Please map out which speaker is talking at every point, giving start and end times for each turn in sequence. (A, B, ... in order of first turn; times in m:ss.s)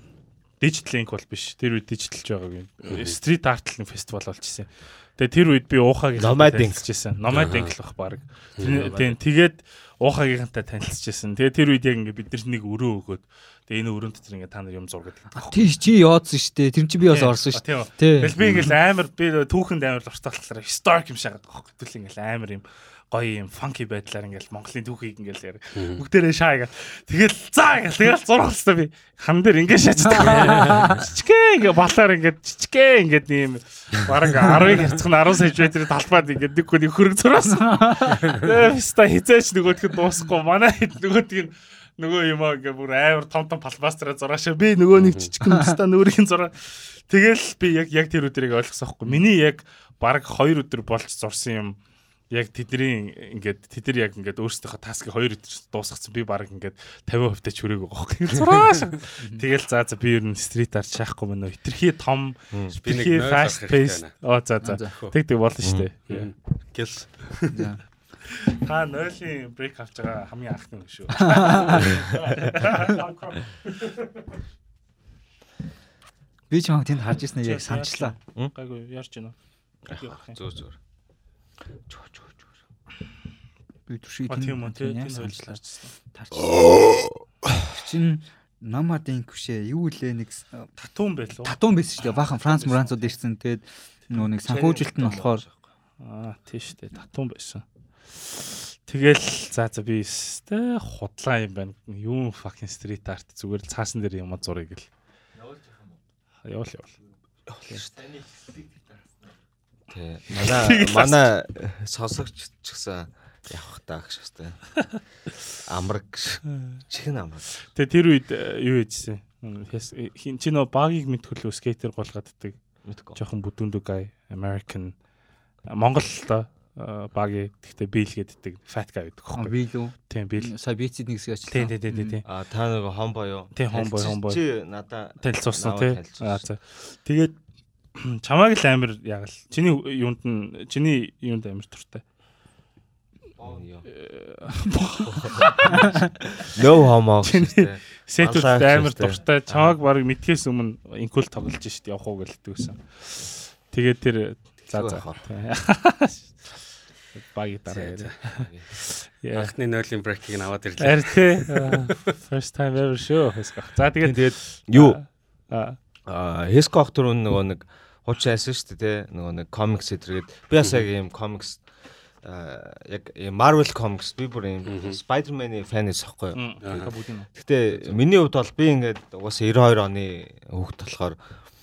0:00.6-0:15.7 A
0:02.8-0:03.2 B
0:06.2-0:06.8 C
0:07.3-0:07.8 B
0:08.6-0:09.0 B
0:08.6-0:09.1 C
0:15.4-0:18.7 D
0:17.1-0:51.8 A
0:18.4-0:18.7 B
0:25.8-0:26.0 B
0:30.2-0:31.0 B
0:30.6-0:30.9 D
0:37.7-0:38.2 D
0:45.0-0:45.3 B
0:45.4-0:45.7 D
0:52.3-1:06.3 A
1:02.7-1:04.2 B
1:04.6-1:04.9 D
1:05.6-1:05.9 C
1:06.1-1:07.7 B
1:07.5-1:07.8 D
1:08.5-1:13.8 A
1:11.2-1:11.8 D
1:16.5-1:18.2 D
1:17.4-1:19.4 A
1:19.9-1:20.4 A
1:19.9-1:20.8 C
1:23.9-1:25.6 D
1:24.3-1:25.9 A
1:26.1-1:26.7 D
1:26.4-1:27.2 C
1:27.7-1:30.7 D
1:30.8-1:31.6 A
1:31.4-1:35.4 D
1:32.2-1:33.0 A
1:34.4-1:35.5 C
1:36.0-1:44.9 A
1:46.4-1:47.0 A
1:47.5-1:47.9 C
1:49.9-1:54.7 C
1:50.3-1:51.2 A
1:55.7-1:57.5 C
1:57.7-2:02.6 A
2:02.8-2:03.2 C
2:03.1-2:05.0 A
2:05.7-2:10.5 A
2:09.4-2:12.2 D
2:11.5-2:12.2 A
2:12.2-2:16.5 C
2:13.6-2:14.4 A
2:15.2-2:17.4 A
2:18.0-2:22.0 A
2:23.4-2:23.9 C
2:23.9-2:26.6 A
2:26.4-2:29.7 C
2:27.2-2:39.5 A
2:34.7-2:35.2 C
2:37.7-2:38.5 B
2:39.3-2:42.1 B
2:40.8-2:45.8 A
2:44.0-2:45.0 C
2:46.1-2:51.7 C
2:52.2-2:56.4 C
2:54.7-2:55.0 B
2:56.3-2:58.0 A
2:56.6-2:56.9 B
2:57.4-3:01.2 C